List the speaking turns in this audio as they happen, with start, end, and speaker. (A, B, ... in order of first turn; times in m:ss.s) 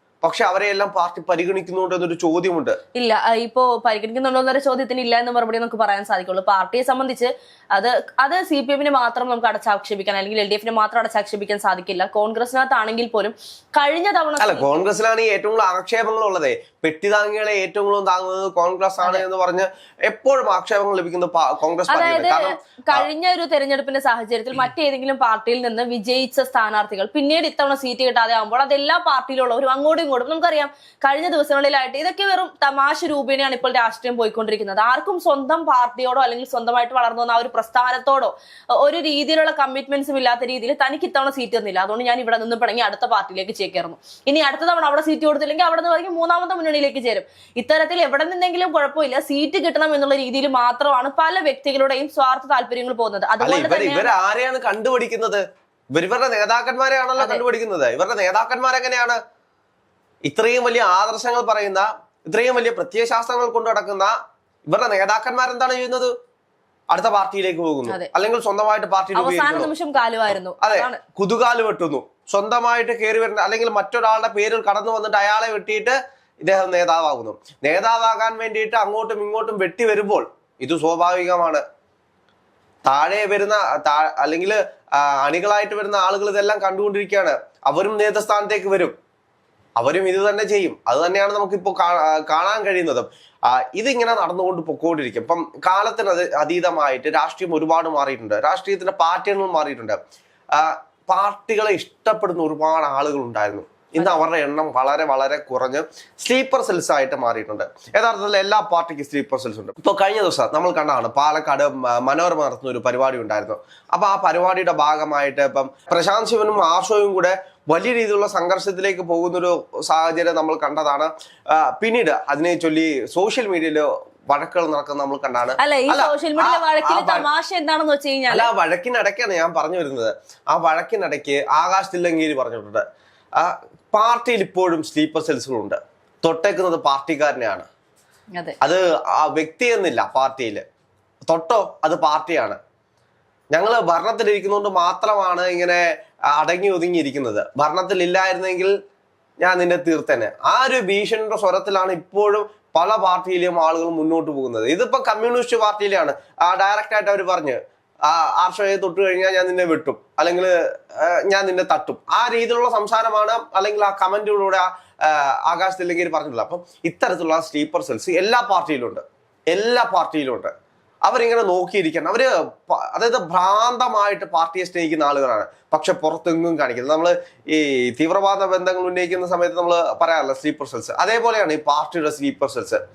0:00.2-0:02.8 A
0:02.9-0:14.8 B
0:14.4-0:23.1 A
0:21.9-0:54.1 B
0:53.4-0:55.4 A
0:55.9-0:59.2 A
1:00.2-1:04.1 A
1:04.7-1:06.1 A
1:06.9-1:09.7 A
1:09.1-1:11.0 B
1:10.6-1:21.6 A
1:22.8-1:28.9 A
1:29.8-1:40.0 A
1:40.5-2:07.3 A
2:05.6-2:08.5 B
2:08.3-2:12.8 A
2:13.4-2:17.7 A
2:18.6-2:20.6 A
2:21.3-2:22.6 A
2:23.5-2:25.8 A
2:26.3-2:28.7 A
2:29.4-2:50.5 A
2:51.0-3:02.8 A